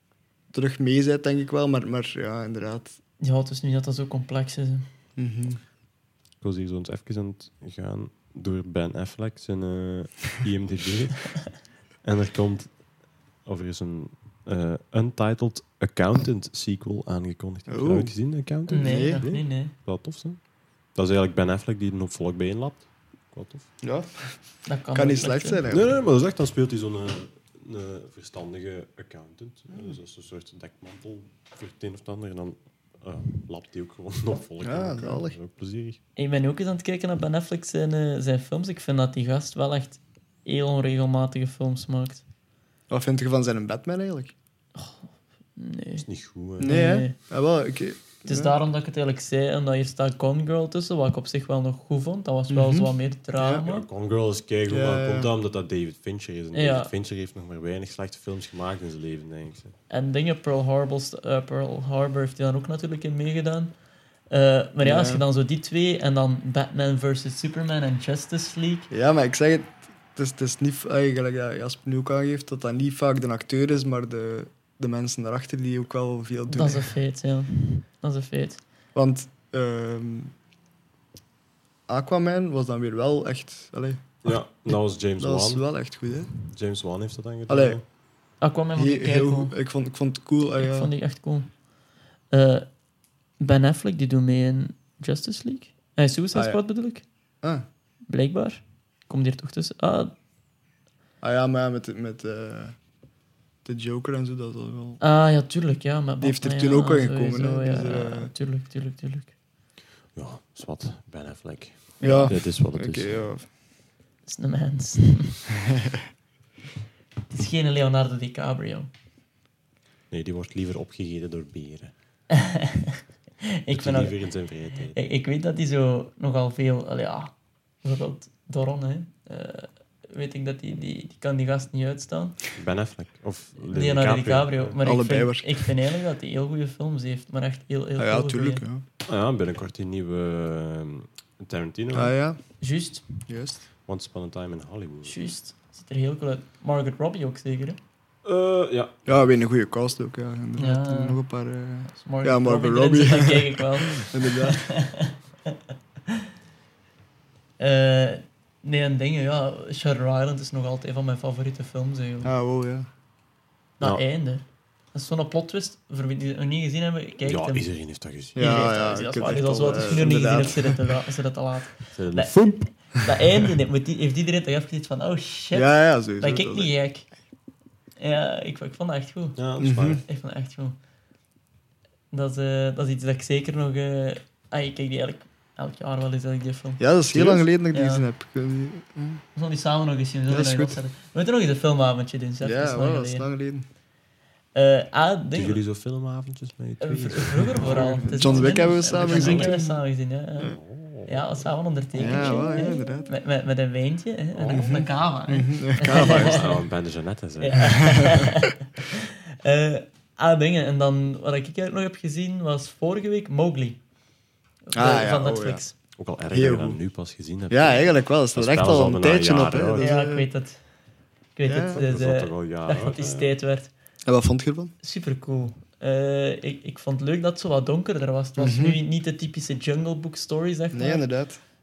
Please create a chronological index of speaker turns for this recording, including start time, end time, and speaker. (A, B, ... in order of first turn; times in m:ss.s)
0:00.5-0:03.0 A
0:03.2-0:04.9 B
0:05.2-0:05.6 A
0:06.4-0:12.8 C
0:13.4-0:20.4 C
0:17.7-0:18.2 A
0:18.7-0:19.2 A
0:18.7-0:19.7 B
0:21.0-0:23.7 C
0:23.8-0:24.4 A
0:24.7-0:25.6 B
0:24.9-0:26.0 A
0:25.7-0:36.0 C
0:34.6-0:35.4 A
0:36.2-0:42.2 B
0:42.9-0:44.3 A
0:44.8-0:46.1 B
0:46.0-0:46.7 C
0:46.6-0:48.6 A
0:46.6-0:47.2 B
0:48.3-0:53.9 B
0:52.5-0:53.6 A
0:53.6-0:59.8 C
0:54.7-0:55.3 A
0:56.5-0:56.9 B
0:59.9-1:03.7 B
1:04.3-1:08.9 B
1:04.8-1:05.2 A
1:08.9-1:17.0 A
1:16.5-1:18.6 B
1:19.0-1:20.3 A
1:21.9-1:24.4 A
1:24.2-1:25.6 C
1:25.2-1:26.3 A
1:26.4-1:27.8 C
1:27.5-1:27.8 A
1:28.4-1:29.6 B
1:28.8-1:30.9 A
1:30.6-1:31.5 B
1:32.3-1:32.7 B
1:33.4-1:37.0 B
1:36.3-1:36.6 A
1:38.1-1:40.1 B
1:41.2-1:42.8 A
1:43.6-1:45.0 A
1:45.0-1:49.3 B
1:46.2-1:48.3 A
1:50.1-1:53.3 C
1:52.0-1:52.3 B
1:52.0-1:53.5 A
1:54.3-1:55.4 B
1:57.3-1:58.9 B
2:00.1-2:01.9 C
2:02.4-2:04.3 B
2:03.7-2:05.1 C
2:04.9-2:12.4 B
2:12.5-2:14.8 C
2:13.6-2:18.6 B
2:14.8-2:15.7 A
2:18.0-2:18.8 A
2:19.1-2:22.1 C
2:21.9-2:22.4 A
2:22.6-2:23.3 B
2:23.3-2:23.6 A
2:23.9-2:25.2 C
2:25.0-2:27.8 B
2:28.2-2:29.0 C
2:29.1-2:34.7 A
2:30.6-2:31.2 B
2:31.9-2:35.2 B
2:37.6-2:42.3 B
2:42.2-2:42.9 A
2:43.8-2:47.6 B
2:47.2-2:48.6 C
2:48.4-2:50.9 A
2:48.4-2:57.1 B
2:49.7-2:50.5 C
2:51.9-2:53.0 C
2:55.5-2:56.7 A
2:58.0-2:59.4 B
2:59.4-3:00.0 C
2:59.6-3:00.0 A
3:00.1-3:00.8 B
3:02.1-3:06.8 B
3:06.8-3:09.2 A
3:07.1-3:07.5 C
3:07.7-3:08.1 B
3:09.4-3:13.3 B
3:10.3-3:10.8 A
3:12.4-3:13.6 A
3:14.6-3:15.6 B
3:15.4-3:19.6 C
3:16.8-3:26.6 B
3:17.6-3:19.8 A
3:20.4-3:21.3 C
3:22.0-3:23.1 A
3:24.4-3:24.7 C
3:24.5-3:26.5 A
3:25.9-3:28.2 C
3:27.4-3:33.8 B
3:27.8-3:28.3 A
3:34.7-3:35.7 B
3:34.8-3:35.6 A
3:35.9-3:39.9 C
3:36.3-3:36.8 A
3:37.5-3:40.3 A
3:39.8-3:40.6 B
3:41.4-3:43.7 B
3:41.5-3:41.8 A
3:41.8-3:43.3 C
3:44.1-3:44.7 A
3:44.8-3:51.0 B
3:48.4-3:48.8 A
3:50.7-3:51.4 A